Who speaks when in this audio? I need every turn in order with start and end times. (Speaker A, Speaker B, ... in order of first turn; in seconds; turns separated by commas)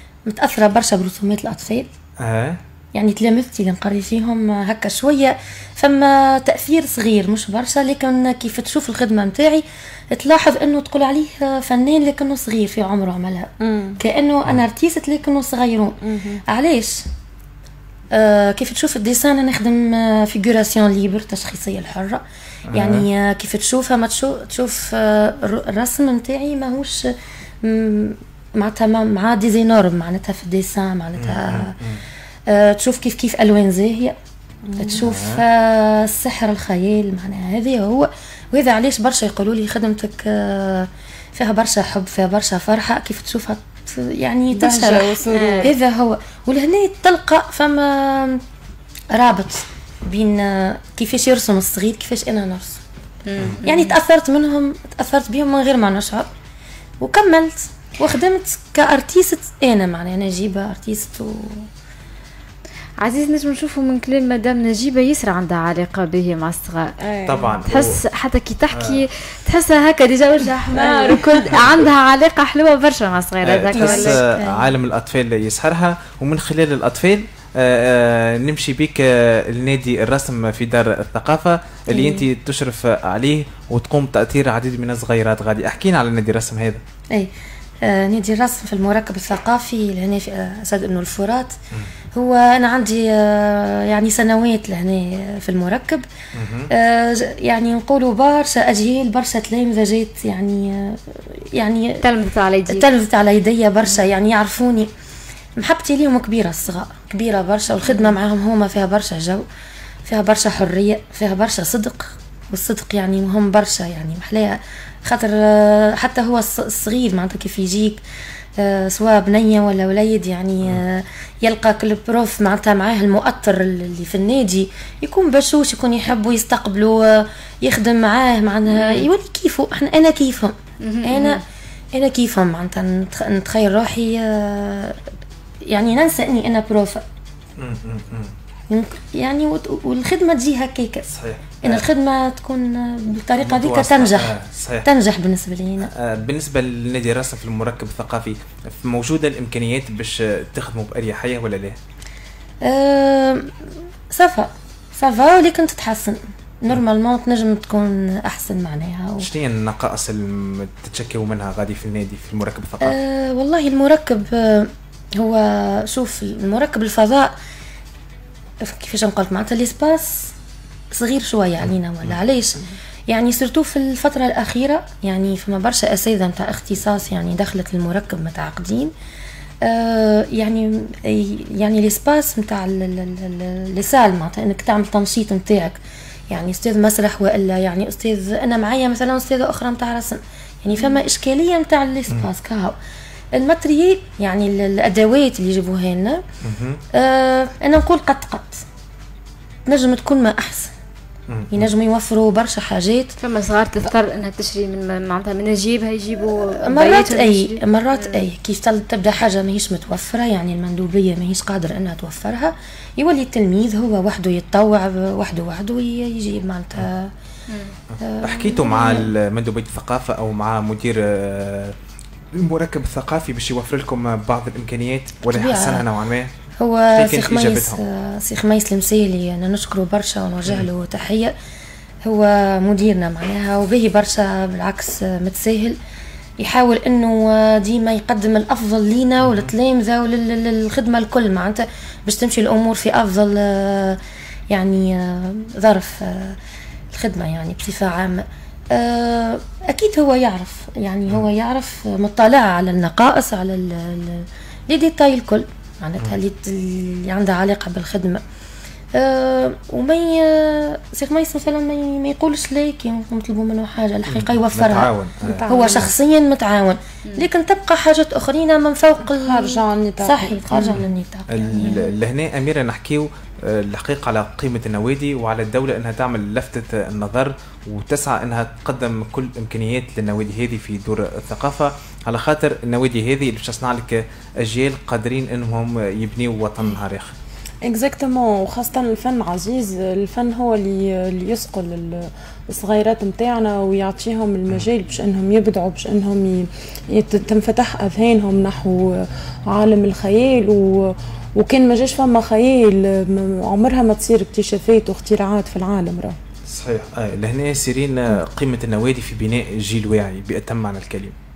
Speaker A: 0.3-1.9, Speaker B: 2.2-2.6, Speaker A: 2.9-17.1, Speaker C: 13.6-14.0, Speaker C: 16.0-16.4, Speaker A: 18.1-22.2, Speaker B: 22.7-23.1, Speaker A: 22.7-31.8, Speaker B: 31.2-32.0, Speaker A: 32.5-34.2, Speaker C: 34.7-35.1, Speaker A: 34.8-48.4, Speaker B: 35.0-35.4, Speaker C: 44.5-45.7, Speaker D: 45.3-45.7, Speaker A: 49.1-52.8, Speaker D: 53.3-53.9, Speaker A: 53.6-56.3, Speaker A: 57.0-61.7, Speaker D: 63.0-67.0, Speaker C: 67.0-67.6, Speaker B: 67.3-68.0, Speaker D: 67.7-74.2, Speaker B: 68.7-69.0, Speaker C: 70.7-71.6, Speaker B: 71.5-71.9, Speaker B: 73.4-86.8, Speaker A: 73.7-74.7, Speaker A: 81.9-82.3, Speaker A: 87.1-91.6, Speaker A: 92.1-96.1, Speaker B: 96.3-96.7, Speaker A: 96.7-102.1, Speaker D: 102.0-102.9, Speaker A: 102.7-104.9, Speaker A: 105.6-109.5, Speaker A: 110.1-118.0, Speaker A: 118.6-131.4, Speaker D: 130.8-131.4, Speaker A: 131.9-135.0, Speaker A: 135.7-137.0, Speaker B: 137.6-138.3, Speaker A: 138.7-145.9, Speaker B: 141.1-141.8, Speaker B: 143.4-144.9, Speaker B: 145.9-151.8, Speaker A: 152.6-159.3, Speaker B: 159.2-163.0, Speaker A: 162.8-167.3, Speaker A: 168.6-170.3, Speaker A: 170.9-178.9, Speaker A: 179.6-185.8, Speaker A: 186.3-192.8, Speaker A: 193.3-196.2, Speaker B: 196.4-196.8, Speaker A: 196.9-198.7, Speaker A: 199.7-200.7, Speaker B: 201.3-201.7, Speaker A: 201.5-203.2, Speaker D: 203.2-207.6, Speaker A: 206.5-217.1, Speaker B: 217.9-221.8, Speaker A: 218.0-219.1, Speaker B: 222.3-226.3, Speaker A: 225.2-225.9, Speaker A: 226.6-231.3, Speaker B: 226.9-227.8, Speaker A: 232.0-235.8, Speaker A: 236.4-246.4, Speaker B: 239.2-239.5, Speaker A: 246.9-258.2, Speaker A: 258.9-264.9, Speaker B: 264.1-265.4, Speaker C: 265.2-265.9, Speaker A: 265.4-271.9, Speaker C: 269.2-270.8, Speaker B: 270.8-287.1, Speaker C: 287.6-306.2, Speaker B: 306.5-311.1